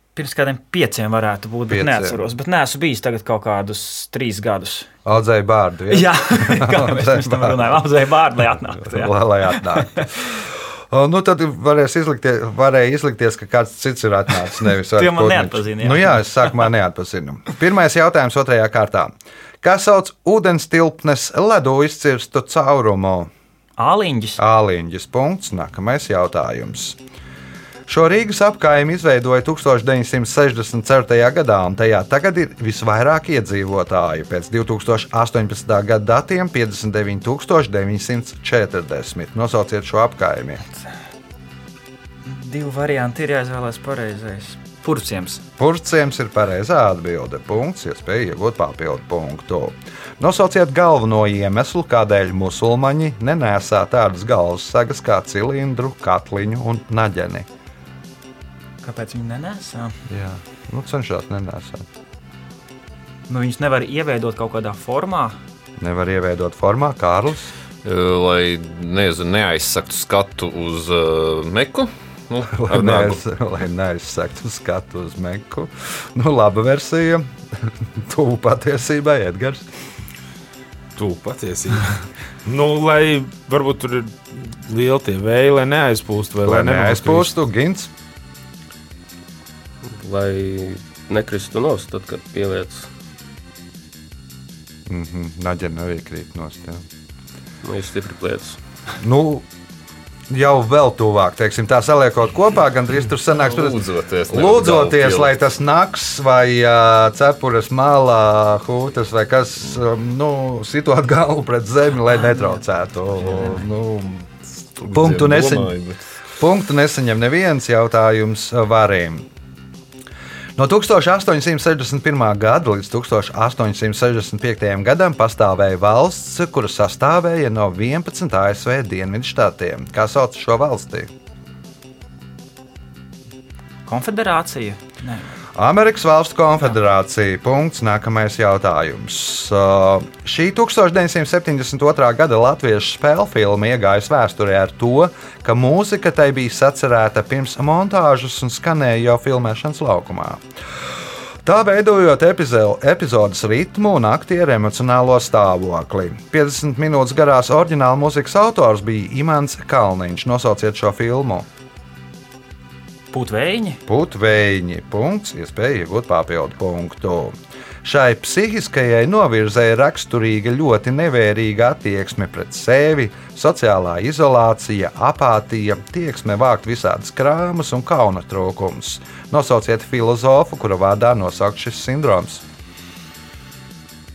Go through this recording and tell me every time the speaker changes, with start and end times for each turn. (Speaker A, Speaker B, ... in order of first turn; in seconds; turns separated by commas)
Speaker A: 0.2-4.9, Speaker B: 1.7-2.2, Speaker B: 5.0-7.8, Speaker A: 5.9-10.1, Speaker B: 8.6-23.3, Speaker A: 14.9-16.3, Speaker A: 23.8-24.4, Speaker B: 24.4-27.0, Speaker B: 27.9-40.6, Speaker A: 42.2-45.4, Speaker B: 45.6-57.5, Speaker A: 58.8-60.0, Speaker B: 60.1-61.9, Speaker A: 63.3-65.4, Speaker B: 65.8-67.5, Speaker C: 67.8-73.2, Speaker B: 72.5-79.7, Speaker D: 81.0-87.3, Speaker B: 86.4-87.9, Speaker E: 89.8-92.9, Speaker B: 94.9-96.9, Speaker E: 97.6-98.6, Speaker B: 99.0-99.5, Speaker B: 100.3-114.3, Speaker C: 103.4-105.3, Speaker A: 112.3-112.5, Speaker A: 113.2-113.7, Speaker C: 114.6-116.1, Speaker B: 114.9-115.8, Speaker B: 116.3-119.3, Speaker B: 120.6-131.1, Speaker A: 133.9-135.3, Speaker B: 135.6-150.4, Speaker B: 151.4-161.5, Speaker A: 163.1-163.8, Speaker B: 163.9-182.4